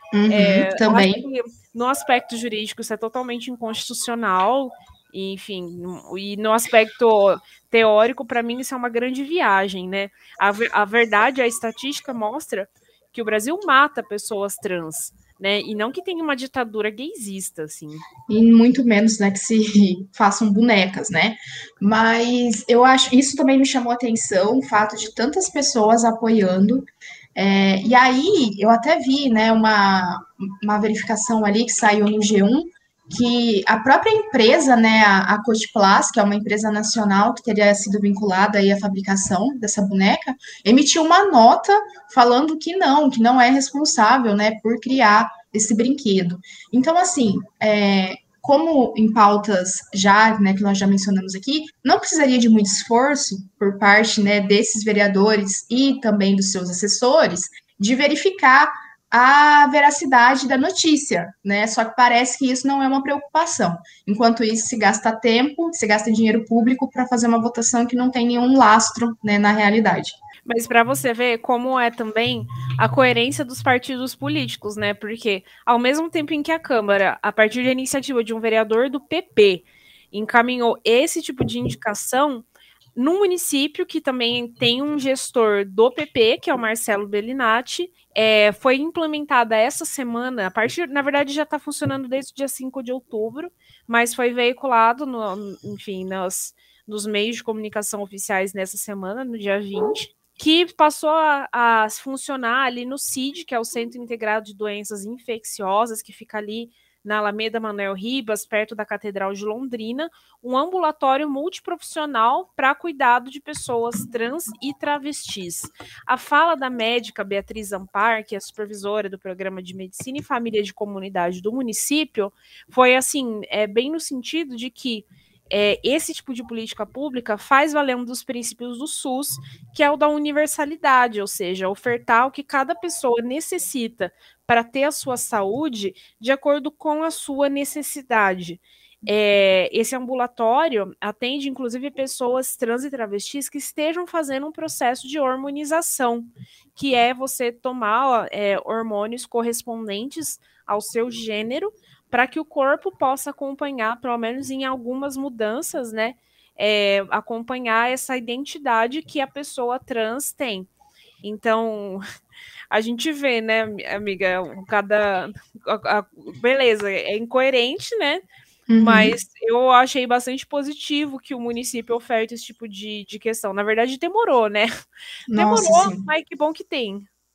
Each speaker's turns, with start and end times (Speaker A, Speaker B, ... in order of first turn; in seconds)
Speaker A: 0.1-1.2, 18.3-70.2, 168.7-169.2, 175.3-176.1
Speaker B: 0.3-18.0, 70.5-160.7, 161.2-162.0, 162.7-168.2, 168.8-174.7, 175.3-177.1